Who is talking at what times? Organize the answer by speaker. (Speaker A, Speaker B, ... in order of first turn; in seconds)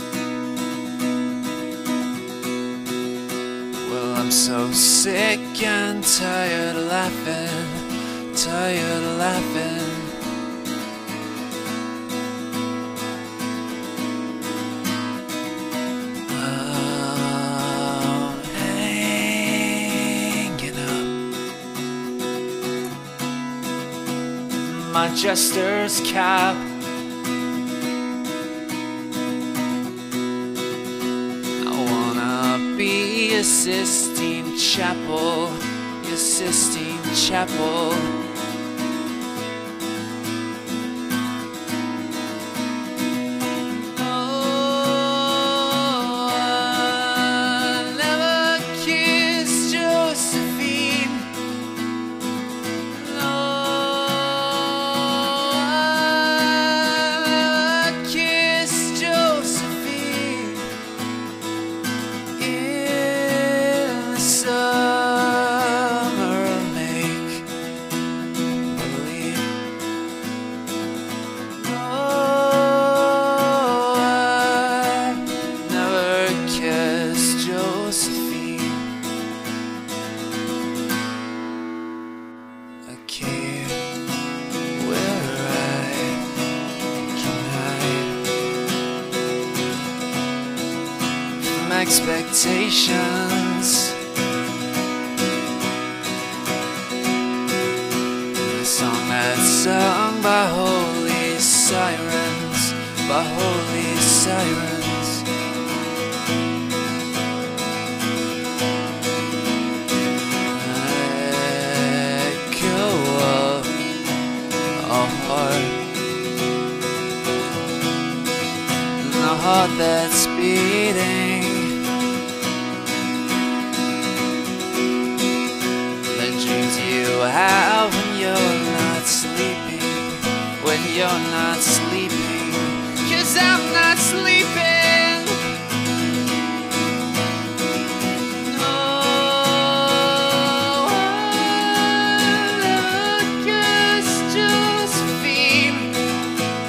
Speaker A: 3.8-10.2, 16.3-21.2, 24.6-26.7, 31.6-38.1, 43.8-51.3, 52.9-60.7, 62.4-67.5, 68.7-69.5, 71.5-78.9, 82.8-83.8, 84.7-86.2, 87.1-88.2, 91.4-93.9, 98.4-105.2, 110.5-113.8, 114.8-115.8, 119.0-121.7, 126.1-135.4, 138.4-146.0